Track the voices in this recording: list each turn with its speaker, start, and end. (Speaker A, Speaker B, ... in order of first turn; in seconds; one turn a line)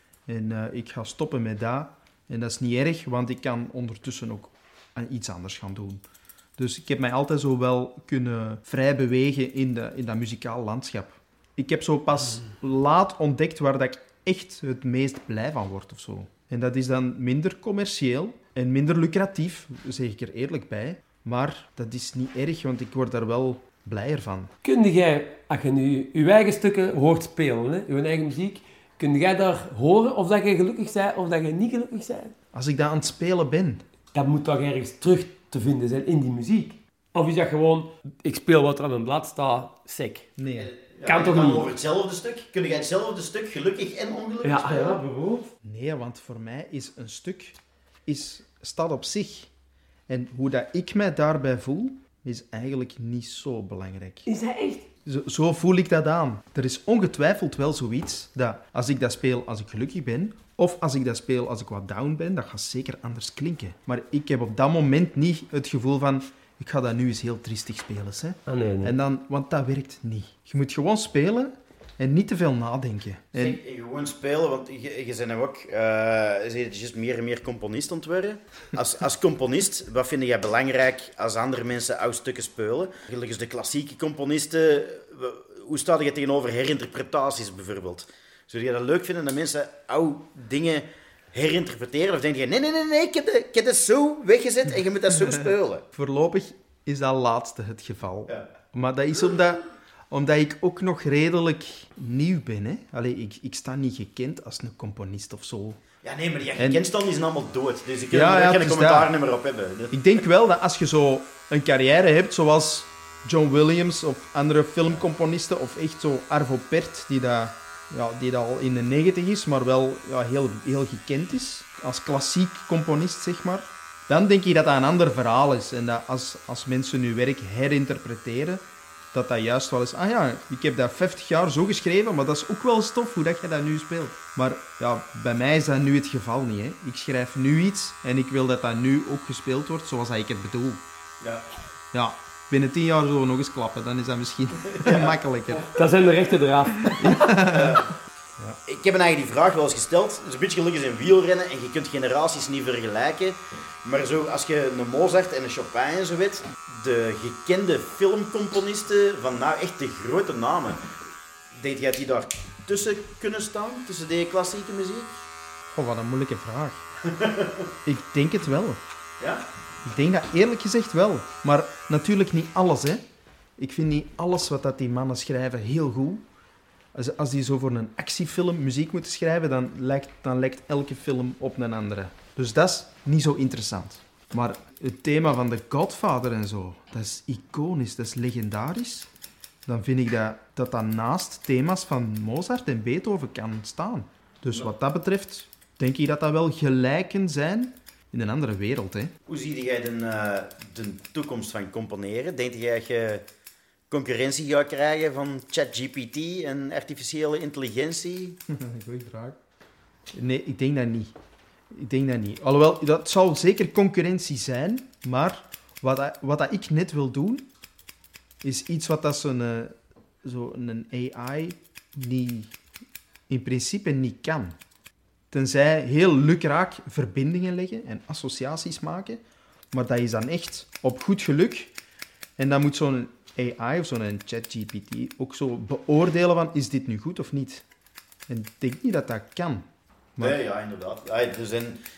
Speaker A: 0.3-6.0
Speaker A: 6.6-24.5
Speaker B: 24.6-32.3
Speaker A: 32.5-33.8
Speaker B: 34.1-40.3
Speaker A: 40.4-40.7
Speaker C: 40.6-45.0
Speaker B: 41.0-41.7
Speaker B: 44.4-45.5
Speaker A: 45.6-49.5
Speaker A: 50.1-54.3
Speaker B: 54.3-54.9
Speaker A: 55.0-73.6
Speaker B: 68.5-69.0
Speaker C: 73.3-95.8
Speaker A: 95.9-105.8
Speaker C: 106.0-110.0
Speaker A: 106.6-106.9
Speaker A: 108.1-109.1
Speaker A: 109.9-140.8
Speaker A: 141.9-145.7
Speaker C: 144.8-145.2
Speaker B: 145.7-147.4
Speaker A: 147.0-147.8
Speaker C: 147.5-147.9
Speaker C: 148.7-160.9
Speaker C: 161.6-165.2
Speaker A: 165.7-166.8
Speaker C: 167.1-167.7
Speaker A: 167.9-168.8
Speaker C: 169.2-169.4
Speaker A: 169.8-173.0
Speaker A: 173.6-176.2
Speaker A: 176.9-189.1
Speaker A: 189.7-199.1
Speaker C: 199.3-203.2
Speaker C: 203.9-208.4
Speaker A: 208.5-209.4
Speaker A: 210.1-211.1
Speaker A: 211.7-217.5
Speaker A: 218.4-222.5
Speaker A: 223.3-224.6
Speaker A: 225.3-231.7
Speaker A: 232.4-237.6
Speaker A: 238.3-239.7
Speaker C: 240.2-241.8